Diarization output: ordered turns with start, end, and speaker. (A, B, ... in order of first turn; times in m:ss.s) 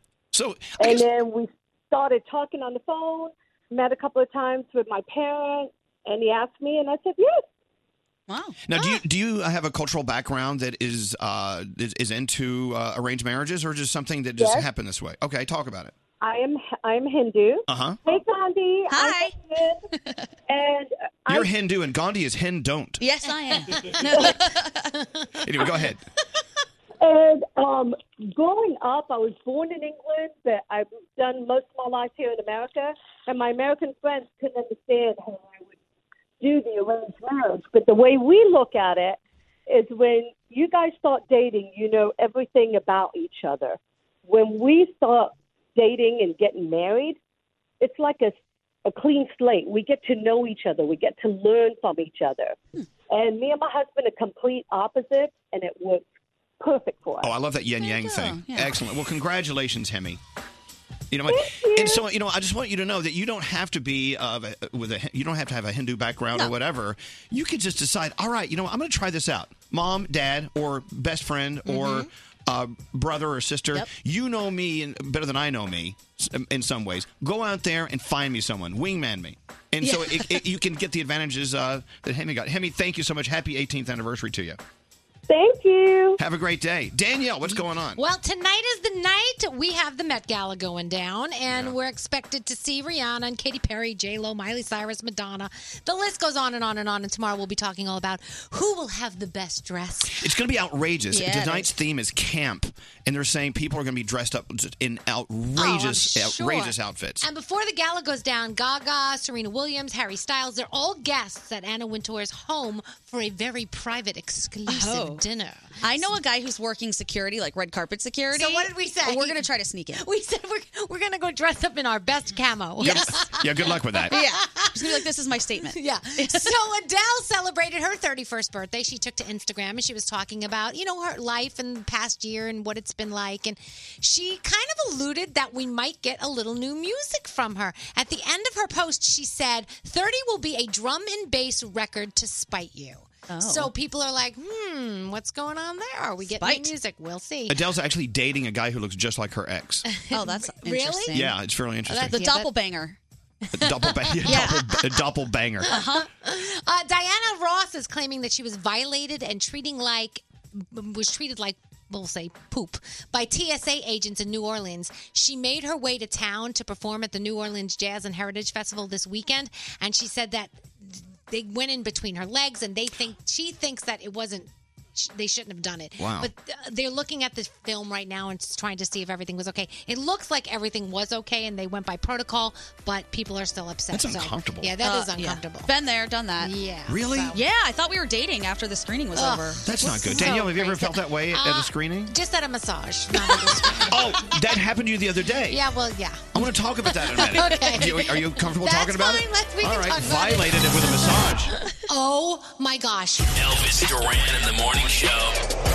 0:00.3-0:01.1 A
0:00.8-0:07.4 B
0:08.3-0:08.6 C
0:08.7-0:15.9 A
0:14.4-0:14.7 B
0:16.2-0:19.8 B
0:17.7-0:18.0 A
0:18.9-0:19.3 C
0:20.5-0:21.5 B
0:21.3-0:23.0 A
0:23.0-0:25.0 C
0:24.0-0:24.4 B
0:25.4-0:26.0 A
0:27.0-0:35.7 B
0:36.4-0:47.2 B
0:47.8-0:48.4 B
0:48.9-0:52.6 B
0:53.1-0:56.0 B
0:56.6-0:57.3 B
0:57.2-1:00.2 A
0:57.8-0:58.8 C
1:01.1-1:24.6 A
1:01.3-1:02.0 B
1:11.7-1:12.0 D
1:19.8-1:20.1 C
1:25.3-1:26.2 B
1:26.2-1:28.0 A
1:27.5-1:40.2 D
1:40.2-1:47.2 A
1:41.1-1:41.7 C
1:45.6-1:56.2 D
1:54.7-1:55.2 C
1:55.8-2:00.0 C
1:58.3-2:05.0 D
2:02.8-2:04.2 A
2:04.1-2:06.5 C
2:05.7-2:27.6 D
2:23.3-2:23.7 C
2:26.4-2:26.7 C
2:27.5-2:29.9 A
2:29.9-2:31.2 D
2:30.1-2:31.4 C
2:31.1-2:32.2 A
2:31.9-2:32.5 D
2:32.1-2:33.0 C
2:33.6-2:35.0 D
2:33.6-2:35.8 A
2:34.2-2:34.6 C
2:35.6-3:05.7 D
2:35.7-2:36.1 C
2:56.0-2:56.3 A
3:03.9-3:04.7 A
3:04.8-3:06.5 C
3:06.4-3:07.4 D
3:06.9-3:07.4 A
3:07.3-3:10.4 C
3:09.2-3:14.5 D
3:09.7-3:12.1 A
3:13.9-3:15.6 A
3:15.5-3:23.3 D
3:16.3-3:21.5 A
3:23.3-3:25.4 E